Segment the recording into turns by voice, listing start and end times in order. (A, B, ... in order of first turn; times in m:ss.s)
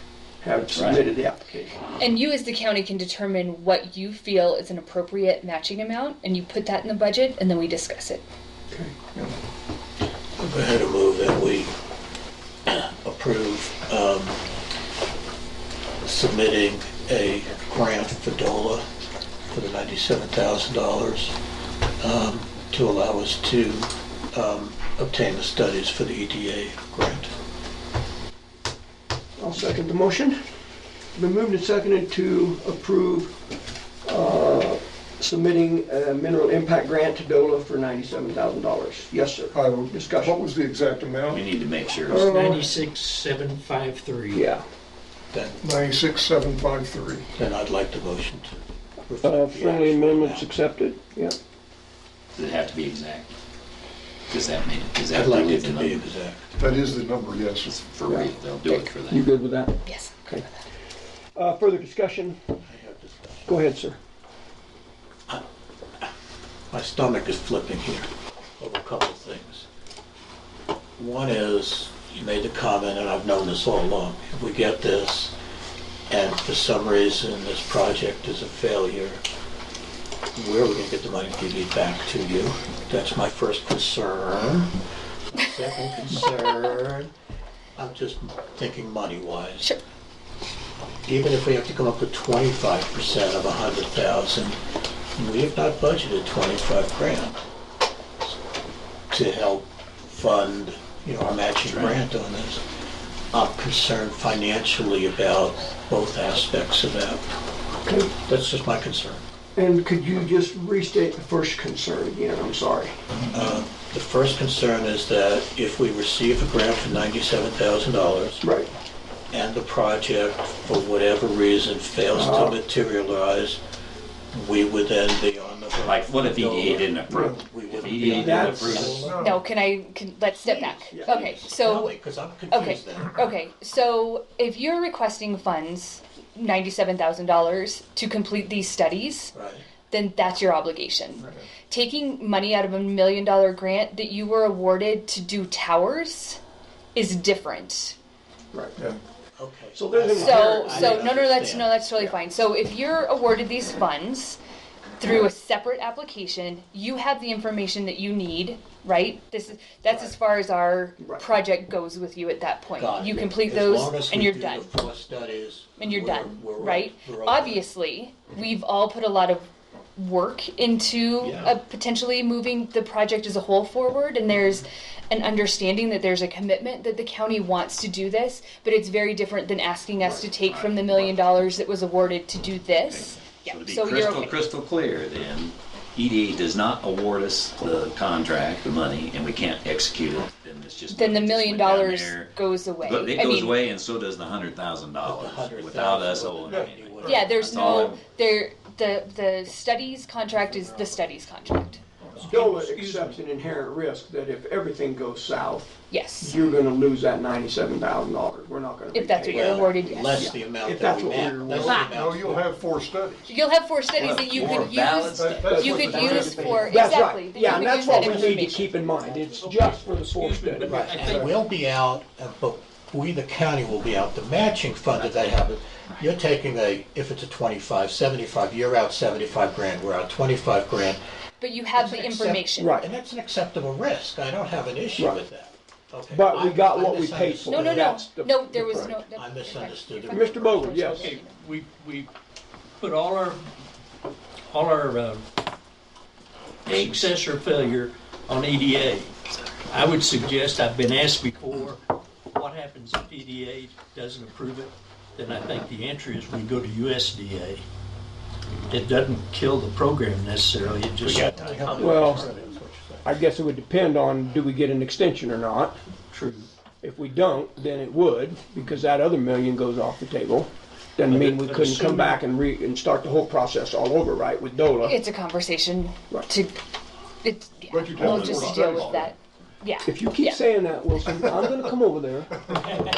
0:00.4-0:01.8 A
0:00.7-0:01.0 B
0:02.0-0:08.2 C
0:08.7-0:09.0 A
0:09.0-0:09.4 D
0:10.4-0:11.7 E
0:12.6-0:14.4 E
0:16.0-0:18.8 E
0:19.5-0:21.3 E
0:22.0-0:27.3 E
0:29.4-0:30.4 A
0:31.2-0:33.3 A
0:34.0-0:40.4 A
0:39.5-0:41.5 D
0:41.3-0:42.3 B
0:42.0-0:42.7 A
0:42.2-0:44.4 F
0:44.3-0:44.6 A
0:45.3-0:45.6 E
0:45.6-0:47.3 D
0:47.3-0:48.5 E
0:49.0-0:50.6 E
0:49.2-0:51.4 A
0:52.4-0:53.3 B
0:54.3-0:56.0 B
0:55.1-0:56.6 E
0:56.6-0:57.7 D
0:57.6-0:59.2 B
0:58.1-1:00.4 A
0:59.8-1:00.5 C
1:01.3-1:02.4 A
1:02.6-1:03.6 E
1:03.5-1:04.0 A
1:06.7-1:08.1 E
1:08.6-1:09.6 E
1:11.0-1:15.3 E
1:16.1-1:19.2 E
1:20.3-1:24.7 E
1:25.3-1:27.1 E
1:27.8-1:29.7 E
1:31.0-1:34.6 E
1:35.2-1:37.4 E
1:39.1-1:42.6 E
1:41.7-1:42.0 B
1:43.3-1:47.3 E
1:47.8-1:48.1 A
1:48.2-1:49.2 E
1:49.5-1:52.9 A
1:53.3-1:58.4 E
1:58.4-1:58.7 A
1:59.3-2:03.6 E
2:02.1-2:02.6 A
2:04.3-2:09.3 E
2:05.8-2:09.1 B
2:07.1-2:07.3 A
2:08.0-2:09.1 A
2:08.9-2:09.4 D
2:09.2-2:11.9 C
2:10.3-2:13.3 E
2:10.9-2:11.2 A
2:12.5-2:19.3 C
2:19.3-2:19.6 E
2:19.9-2:26.4 C
2:26.9-2:28.0 C
2:28.5-2:28.8 A
2:29.4-2:31.8 E
2:29.7-2:31.2 A
2:30.2-2:34.4 C
2:35.0-2:44.7 C
2:41.0-2:41.2 A
2:42.7-2:47.6 E
2:45.8-3:04.4 C
2:51.2-2:51.6 E
3:00.0-3:01.1 B
3:02.8-3:18.0 B
3:10.9-3:13.6 C
3:15.0-3:18.0 E
3:16.5-3:16.7 D
3:17.0-3:21.8 C
3:22.2-3:23.2 F
3:22.3-3:31.9 A
3:25.9-3:26.3 C
3:28.9-3:30.3 C
3:29.3-3:32.5 E
3:31.8-3:33.3 D
3:33.3-3:38.8 C
3:33.9-3:36.5 B
3:34.2-3:36.7 D
3:35.5-3:41.0 A
3:39.1-3:41.3 F
3:40.6-3:51.0 E
3:41.0-3:41.3 D
3:51.4-3:52.8 C
3:51.7-3:58.0 E
3:52.6-3:52.9 A
3:56.1-3:58.9 A
3:57.5-4:01.4 C
3:59.1-4:00.9 E
4:00.1-4:01.1 A
4:01.0-4:02.1 F
4:02.8-4:03.4 F
4:04.5-4:05.2 F
4:06.6-4:09.1 F
4:06.7-4:07.1 B
4:09.7-4:11.8 F
4:12.3-4:17.6 F
4:18.7-4:22.0 F
4:21.0-4:23.1 E
4:21.8-4:22.3 A
4:23.0-4:25.8 A
4:26.1-4:26.5 F
4:26.8-4:35.0 A
4:31.0-4:32.2 F
4:34.8-4:36.6 C
4:37.2-4:40.4 C
4:37.7-4:39.1 D
4:39.8-4:42.5 A